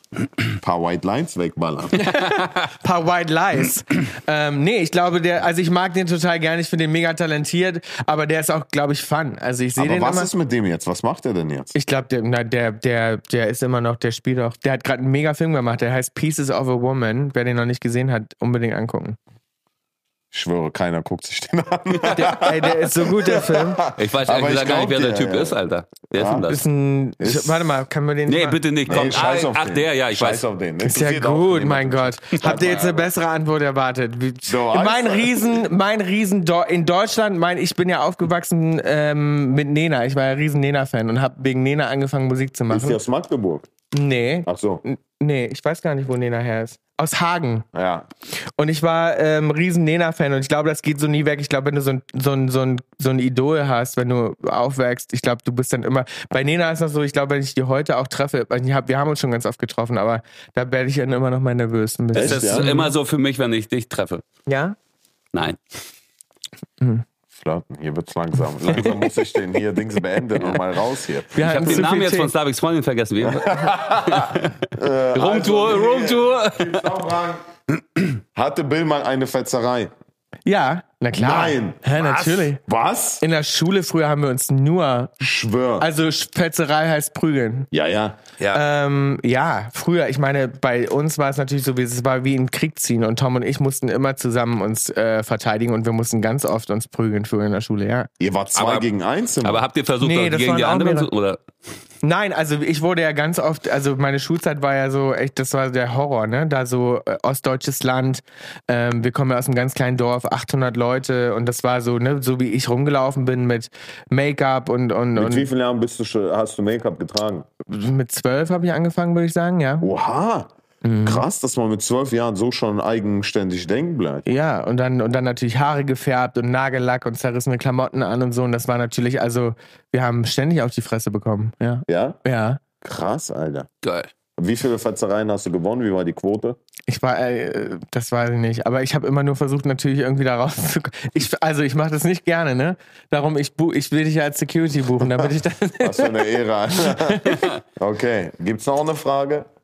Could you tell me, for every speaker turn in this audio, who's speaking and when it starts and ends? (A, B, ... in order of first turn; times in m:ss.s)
0:00.6-0:02.1 A
0:01.9-0:10.3 B
0:09.8-0:11.7 A
0:11.7-0:19.2 B
0:20.3-0:25.6 A
0:22.1-0:23.8 B
0:23.9-0:26.6 C
0:26.1-0:26.4 A
0:26.5-0:29.1 B
0:27.2-0:27.8 A
0:28.3-0:30.4 C
0:28.9-0:33.1 A
0:30.8-0:43.0 B
0:34.5-0:35.6 A
0:42.7-0:43.7 A
0:43.9-0:47.7 B
0:44.4-0:44.8 A
0:47.7-0:48.1 A
0:48.6-1:02.9 B
1:02.1-1:02.7 A
1:02.2-1:04.2 C
1:04.4-1:04.8 B
1:05.3-1:05.6 C
1:07.3-1:11.8 A
1:11.3-1:12.3 B
1:11.4-1:16.8 C
1:13.2-1:17.4 A
1:18.3-1:19.9 A
1:20.4-1:22.6 B
1:21.2-1:21.8 A
1:22.0-1:22.5 C
1:22.6-1:23.2 A
1:23.2-1:25.1 B
1:25.2-1:25.9 A
1:25.8-1:27.7 B
1:27.7-1:28.2 A
1:28.5-1:38.1 B
1:38.2-1:39.6 A
1:38.5-1:38.9 C
1:39.4-1:41.4 C
1:40.0-1:41.1 B
1:42.0-1:55.5 B
1:55.2-1:57.5 A
1:57.7-1:59.9 B
1:59.8-2:00.5 A
2:00.8-2:01.2 B
2:01.0-2:04.2 A
2:04.2-2:12.6 B
2:11.9-2:12.2 A
2:12.8-2:13.7 A
2:13.8-2:14.1 C
2:14.4-2:16.6 A
2:16.9-2:27.4 B
2:25.8-2:29.5 A
2:27.3-2:27.5 C